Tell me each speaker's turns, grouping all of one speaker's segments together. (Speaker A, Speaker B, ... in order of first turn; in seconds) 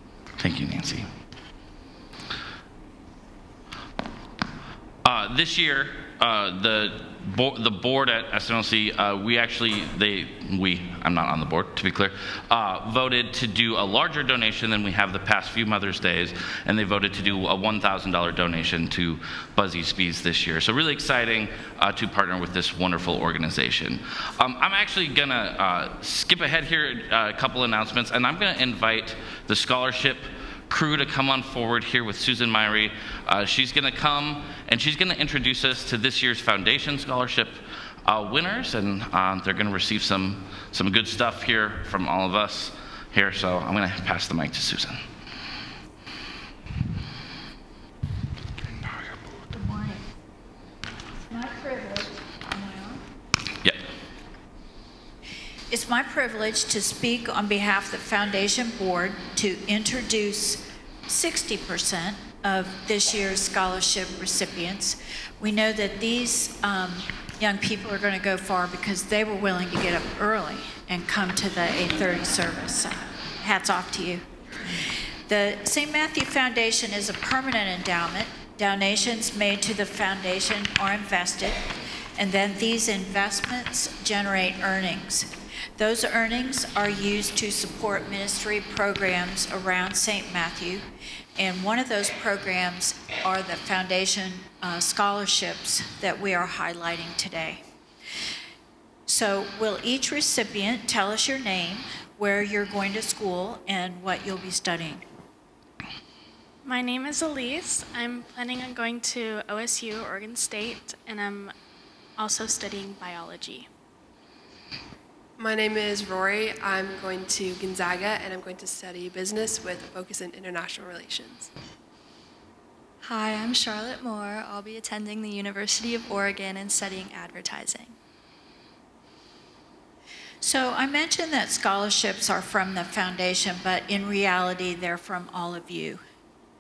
Speaker A: 0.4-1.1, 5.0-45.0
Speaker B: 49.5-50.0, 51.3-53.0, 55.7-74.2, 75.3-81.6, 82.2-97.6, 99.1-105.0, 130.4-136.0
Speaker C: 106.6-111.5, 112.2-113.7
Speaker D: 115.4-121.5
Speaker E: 123.0-128.0